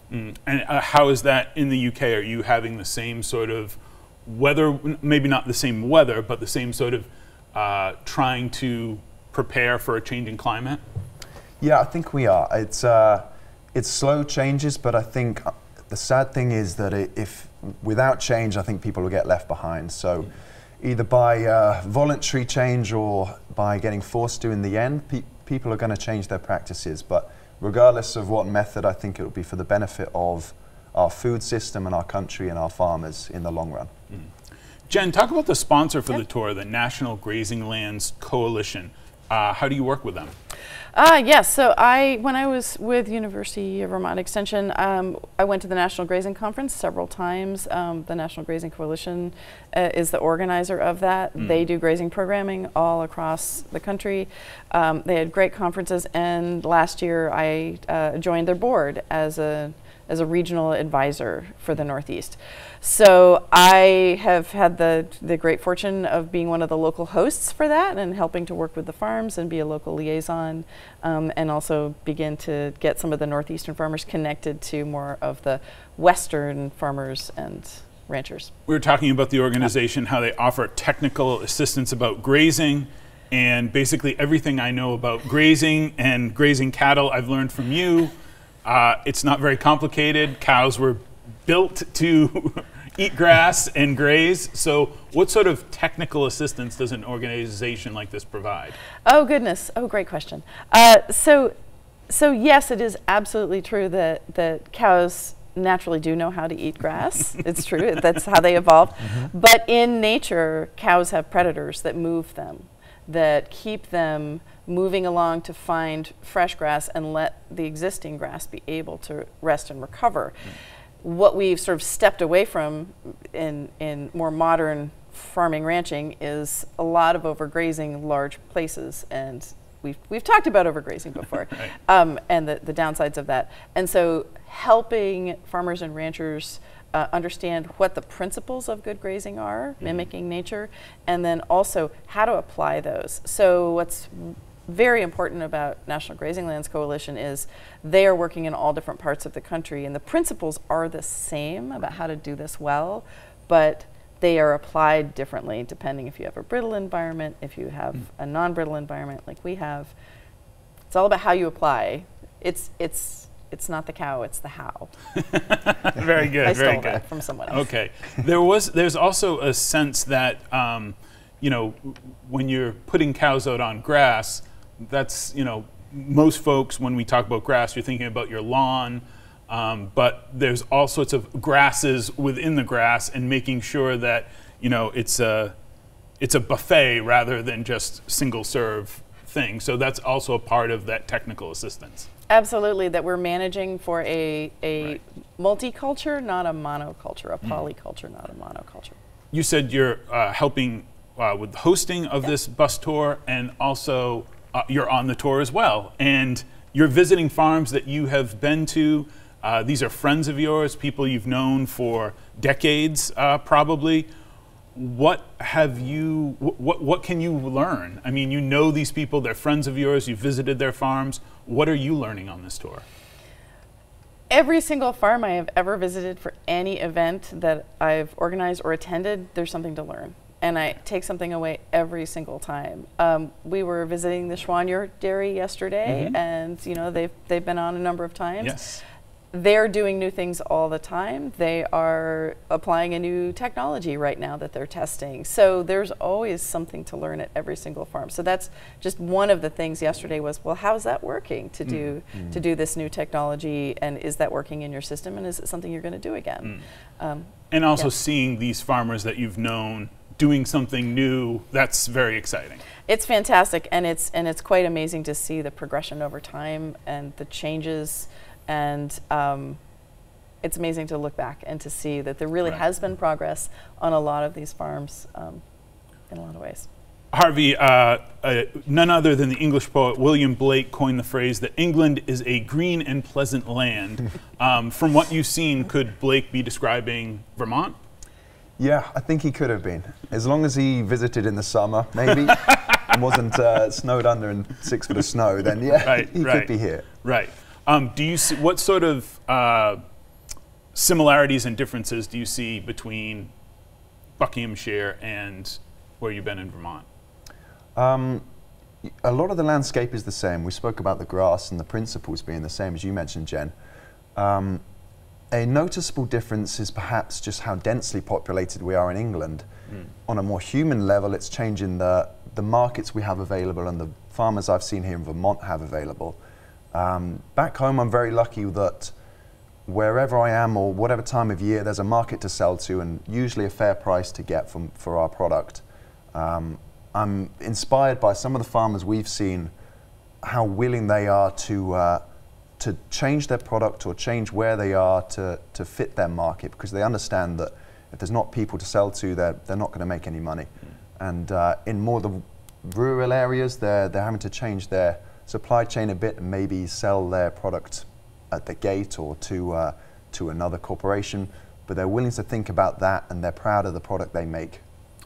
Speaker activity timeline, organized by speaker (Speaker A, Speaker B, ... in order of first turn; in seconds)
Speaker A: 0.1-10.8, 34.9-40.3, 51.4-51.6, 78.7-88.1, 88.6-98.8, 165.2-185.5, 186.2-192.1, 199.3-214.1, 214.7-222.8, 235.8-236.2, 238.4-238.8, 257.5-262.6, 277.1-287.8, 292.2-292.8, 295.8-299.8, 300.7-303.3, 304.2-306.8
Speaker B: 11.6-33.9, 288.6-296.9, 307.8-308.2, 309.0-313.5, 314.1-314.6, 315.3-319.4, 320.1-326.2, 326.7-328.9, 329.6-339.5, 340.2-342.0, 342.6-364.6
Speaker C: 40.9-78.5, 99.0-101.5, 102.1-120.4, 121.0-159.9, 160.9-164.9, 166.4-167.7, 192.3-198.9, 224.3-238.6, 239.3-257.9, 262.9-269.6, 270.4-275.4, 276.1-276.7